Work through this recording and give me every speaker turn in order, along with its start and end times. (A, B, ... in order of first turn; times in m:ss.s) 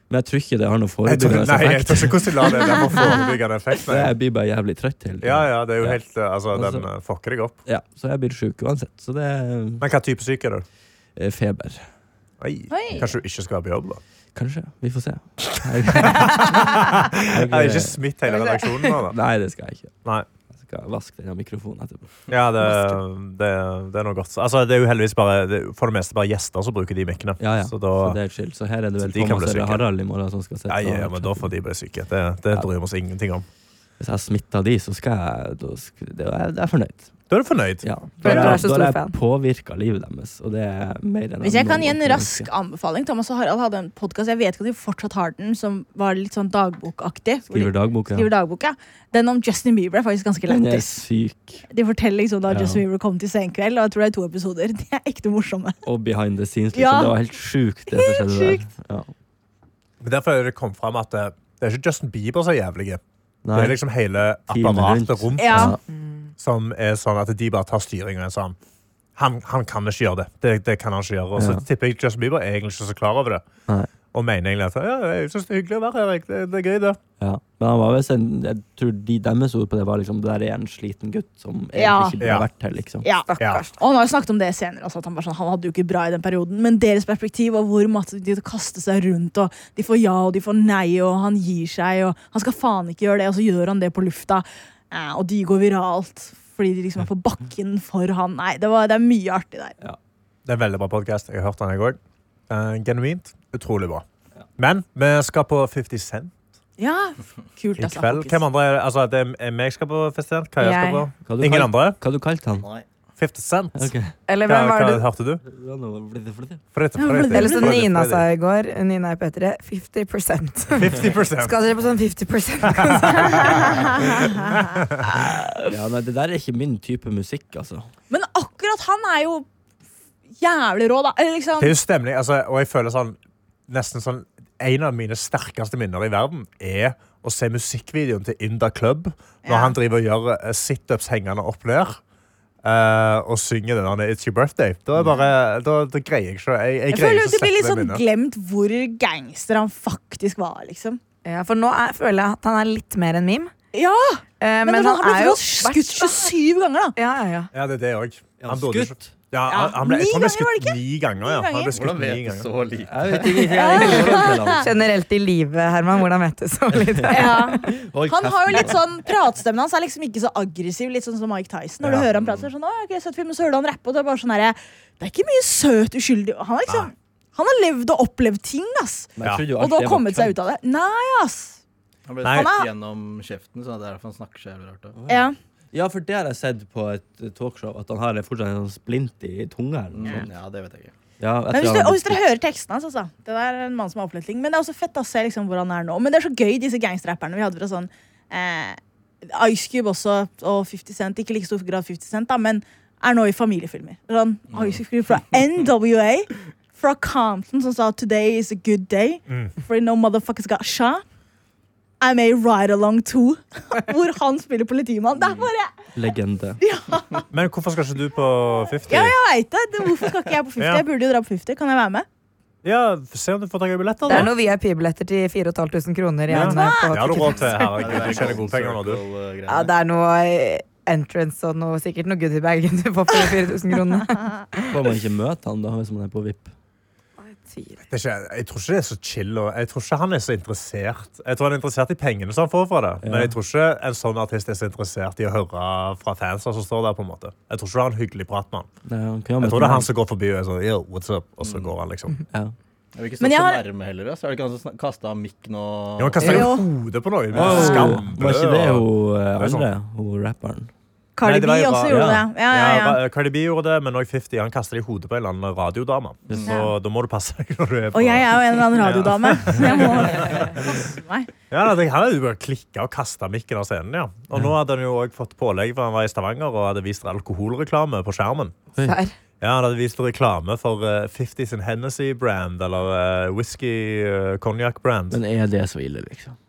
0:00.1-0:02.4 A
0:01.0-0:04.1 B
0:03.9-0:06.0 A
0:05.2-0:07.6 B
0:06.5-0:06.9 A
0:07.7-0:09.8 A
0:09.8-0:10.6 B
0:11.2-0:11.9 A
0:12.4-0:14.0 B
0:12.7-0:13.1 C
0:14.4-0:16.5 A
0:16.0-0:19.2 B
0:17.3-0:18.0 A
0:18.3-0:18.6 D
0:19.0-0:20.0 A
0:20.6-0:22.1 A
0:22.3-0:28.2 B
0:22.6-0:23.0 D
0:27.4-0:31.5 A
0:29.0-0:29.8 B
0:30.7-0:33.5 B
0:34.0-0:37.1 A
0:37.3-0:38.6 B
0:37.8-0:42.5 A
0:38.2-0:39.2 D
0:41.4-0:51.0 C
0:47.5-0:48.3 A
0:50.5-0:51.6 A
0:51.7-0:55.8 C
0:52.5-0:52.8 A
0:55.8-0:59.1 A
0:56.7-0:57.2 C
0:57.9-0:58.6 C
1:00.0-1:03.0 B
1:03.4-1:03.8 A
1:03.5-1:05.7 B
1:04.5-1:05.8 A
1:05.4-1:05.8 C
1:05.9-1:06.3 D
1:06.4-1:08.6 B
1:09.2-1:13.5 B
1:11.4-1:11.6 A
1:14.1-1:17.0 B
1:17.2-1:23.1 A
1:21.7-1:22.2 C
1:22.2-1:22.5 B
1:23.0-1:39.8 C
1:23.3-1:23.7 D
1:40.5-1:42.0 B
1:42.5-1:44.1 B
1:44.6-1:46.4 B
1:46.8-1:48.4 C
1:47.8-1:52.0 B
1:50.6-1:51.1 D
1:51.2-1:52.7 A
1:53.2-1:53.9 B
1:53.8-1:54.1 A
1:54.3-1:55.0 D
1:54.5-1:55.4 B
1:55.4-1:56.6 A
1:56.7-1:58.3 B
1:57.0-1:57.8 C
1:57.3-2:03.7 D
2:00.7-2:01.6 B
2:02.6-2:05.1 B
2:03.5-2:05.8 C
2:05.7-2:07.9 A
2:08.1-2:09.5 C
2:10.4-2:11.8 C
2:11.6-2:22.0 B
2:19.4-2:19.8 C
2:22.6-2:28.0 B
2:26.9-2:31.0 C
2:31.2-2:33.5 D
2:33.7-2:37.0 C
2:34.4-2:36.3 D
2:37.0-2:37.5 D
2:37.5-2:42.5 B
2:38.4-2:39.2 A
2:39.5-2:41.7 C
2:41.7-2:43.5 E
2:42.9-2:44.7 A
2:43.5-2:44.6 C
2:44.6-2:47.7 D
2:46.7-2:48.8 A
2:47.1-3:01.6 C
2:51.8-2:52.1 B
2:52.2-2:52.5 E
2:59.2-3:00.4 A
3:02.1-3:05.0 E
3:02.2-3:02.5 B
3:02.3-3:02.7 C
3:05.0-3:05.2 A
3:05.1-3:05.4 C
3:05.7-3:10.3 A
3:09.9-3:10.9 E
3:11.2-3:12.2 A
3:11.5-3:31.0 C
3:24.5-3:24.8 E
3:29.3-3:29.5 B
3:32.0-3:35.7 C
3:36.0-3:36.6 A
3:36.6-3:37.3 C
3:37.3-3:39.2 B
3:38.9-3:42.1 C
3:40.6-3:40.8 B
3:42.6-3:44.3 B
3:44.1-3:47.8 D
3:46.3-3:49.0 B
3:46.3-3:47.2 C
3:47.5-3:49.7 E
3:49.5-3:54.7 D
3:54.7-3:56.5 A
3:57.2-3:57.8 D
3:57.9-4:08.7 B
4:03.0-4:03.3 A
4:08.9-4:09.9 A
4:09.4-4:12.2 B
4:11.4-4:11.7 E
4:13.0-4:16.4 E
4:13.2-4:13.6 C
4:16.0-4:19.7 B
4:16.2-4:16.7 C
4:17.3-4:20.7 A
4:17.4-4:18.0 C
4:21.2-4:23.0 C
4:21.2-4:30.5 B
4:21.9-4:22.2 A
4:26.5-4:26.7 C
4:27.9-4:31.3 C
4:31.5-4:38.6 B
4:38.8-4:39.1 D
4:39.4-4:45.2 B
4:45.1-4:46.4 A